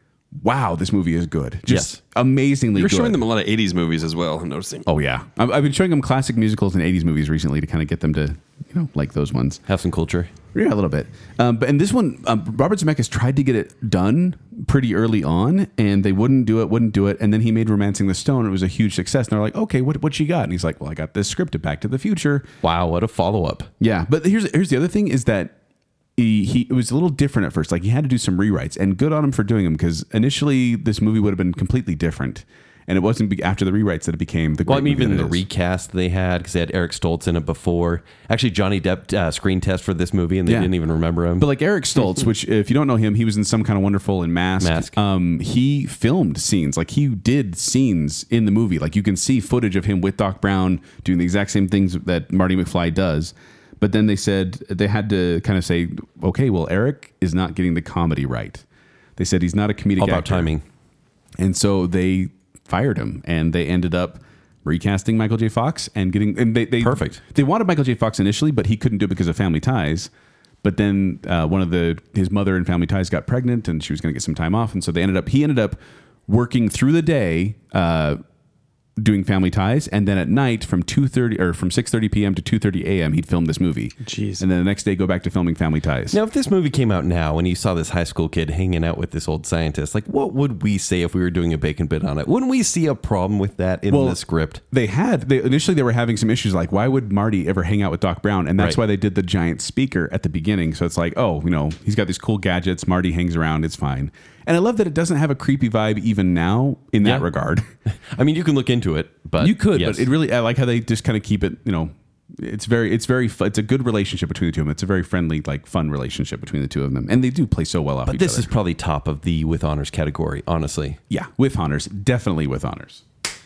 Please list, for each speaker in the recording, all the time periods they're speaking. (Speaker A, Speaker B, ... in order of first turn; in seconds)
Speaker A: 0.3-3.2, 4.9-9.6, 10.5-22.5, 23.8-25.5, 26.2-35.4, 40.5-40.7, 41.4-58.6, 59.2-60.5, 61.4-70.1, 70.6-78.2, 79.0-86.2, 93.9-107.7, 109.4-118.5, 121.1-123.0
Speaker B: 1.7-2.0, 9.7-10.3, 22.6-23.7, 34.6-41.5, 44.6-45.0, 60.0-60.6, 66.8-67.2, 86.1-94.6, 107.9-110.1, 118.1-121.0
Speaker C: 2.7-4.9, 84.0-84.4